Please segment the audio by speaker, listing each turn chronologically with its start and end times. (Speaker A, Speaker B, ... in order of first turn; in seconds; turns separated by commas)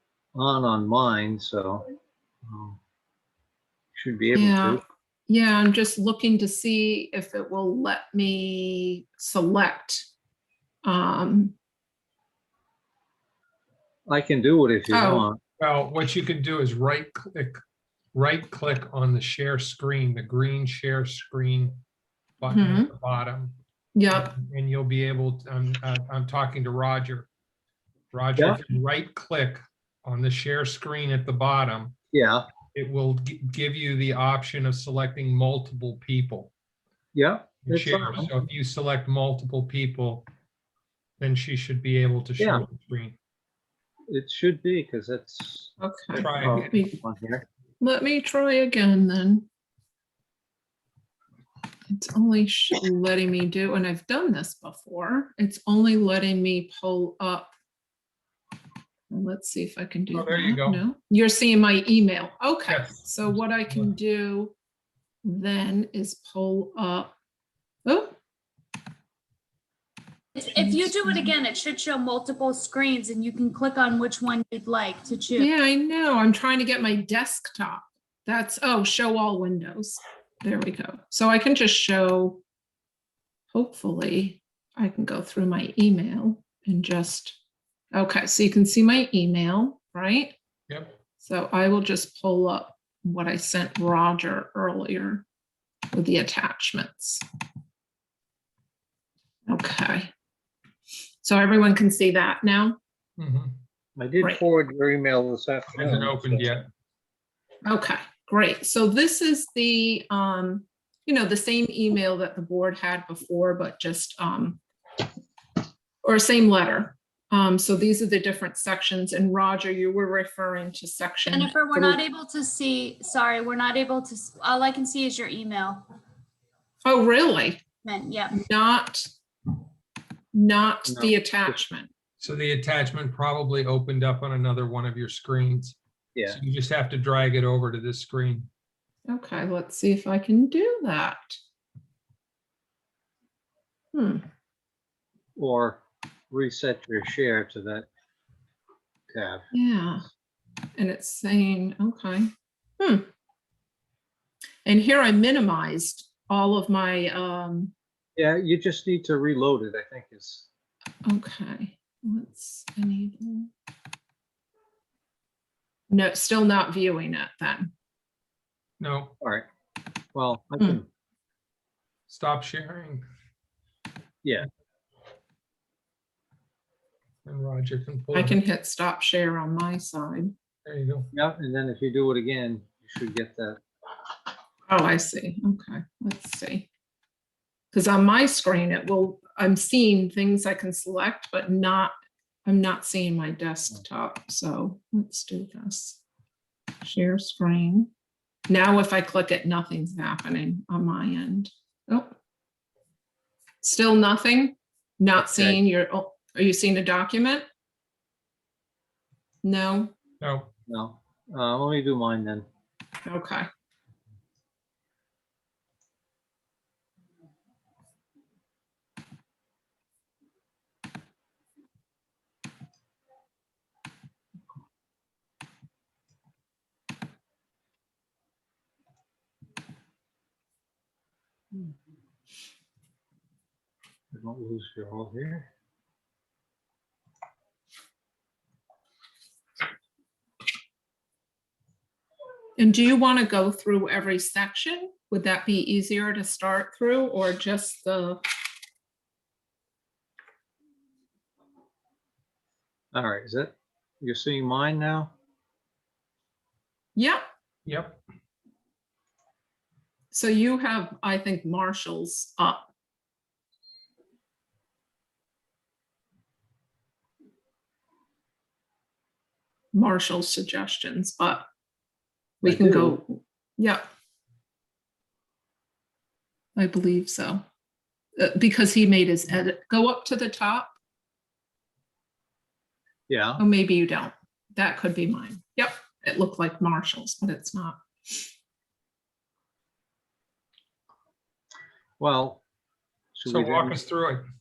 Speaker A: 0.3-1.9, Speaker A: 2.4-2.8, Speaker A: 3.9-4.8, Speaker B: 4.3-10.1, Speaker B: 10.8-11.6, Speaker A: 14.1-15.4, Speaker B: 14.9-15.3, Speaker C: 15.6-17.6, Speaker C: 18.1-21.8, Speaker C: 22.4-23.6, Speaker B: 22.5-22.9, Speaker B: 23.9-24.3, Speaker C: 24.1-27.3, Speaker C: 28.1-32.0, Speaker A: 32.1-32.4, Speaker C: 32.7-36.5, Speaker A: 37.1-38.3, Speaker C: 37.6-40.3, Speaker C: 41.2-43.2, Speaker A: 42.4-42.6, Speaker A: 44.1-47.4, Speaker B: 45.8-47.0, Speaker C: 46.1-46.7, Speaker B: 47.8-49.5, Speaker B: 51.9-57.5, Speaker B: 59.1-64.5, Speaker C: 60.1-60.8, Speaker C: 62.7-63.9, Speaker B: 65.2-67.1, Speaker B: 67.8-68.1, Speaker D: 70.3-75.5, Speaker B: 70.5-71.3, Speaker B: 75.4-82.4, Speaker B: 83.5-87.4, Speaker B: 87.9-90.3, Speaker B: 91.2-95.2, Speaker B: 95.9-97.2, Speaker B: 99.5-100.1, Speaker B: 101.2-102.8, Speaker C: 103.2-103.6, Speaker A: 104.0-106.5, Speaker C: 105.7-106.7, Speaker B: 107.6-114.6, Speaker B: 116.0-122.0, Speaker D: 121.3-125.9, Speaker B: 126.8-127.6, Speaker D: 127.8-128.4, Speaker B: 128.3-129.0, Speaker B: 130.3-131.9, Speaker A: 130.8-131.6, Speaker C: 132.2-138.5, Speaker A: 136.1-136.4, Speaker B: 139.1-141.4, Speaker B: 143.9-144.2, Speaker A: 145.3-147.9, Speaker A: 149.1-149.5, Speaker B: 149.5-150.0, Speaker B: 150.8-153.1, Speaker B: 154.6-157.7, Speaker A: 158.2-160.5, Speaker B: 161.0-163.5, Speaker B: 165.9-167.7, Speaker C: 168.8-169.2, Speaker A: 169.2-169.5, Speaker A: 170.1-170.9, Speaker C: 172.1-173.0, Speaker C: 177.2-178.4, Speaker B: 178.1-180.3, Speaker C: 180.7-181.1, Speaker A: 181.1-183.6, Speaker B: 184.7-186.7, Speaker B: 187.7-191.9, Speaker B: 192.4-196.0, Speaker B: 196.8-197.9, Speaker B: 198.5-202.1, Speaker B: 203.6-207.4, Speaker A: 205.2-205.6, Speaker B: 209.4-209.9, Speaker C: 210.2-210.5, Speaker A: 210.7-212.4, Speaker B: 213.1-213.5, Speaker A: 234.1-235.5, Speaker B: 242.6-248.2, Speaker A: 252.9-255.1, Speaker B: 256.9-257.2, Speaker C: 257.6-258.0, Speaker B: 260.1-262.7, Speaker B: 269.7-271.4, Speaker B: 272.4-273.8, Speaker A: 272.4-273.0, Speaker B: 276.6-277.4, Speaker B: 278.2-280.7, Speaker A: 283.1-283.4, Speaker B: 283.4-288.2, Speaker A: 292.0-292.4, Speaker A: 293.1-293.8, Speaker C: 293.3-294.2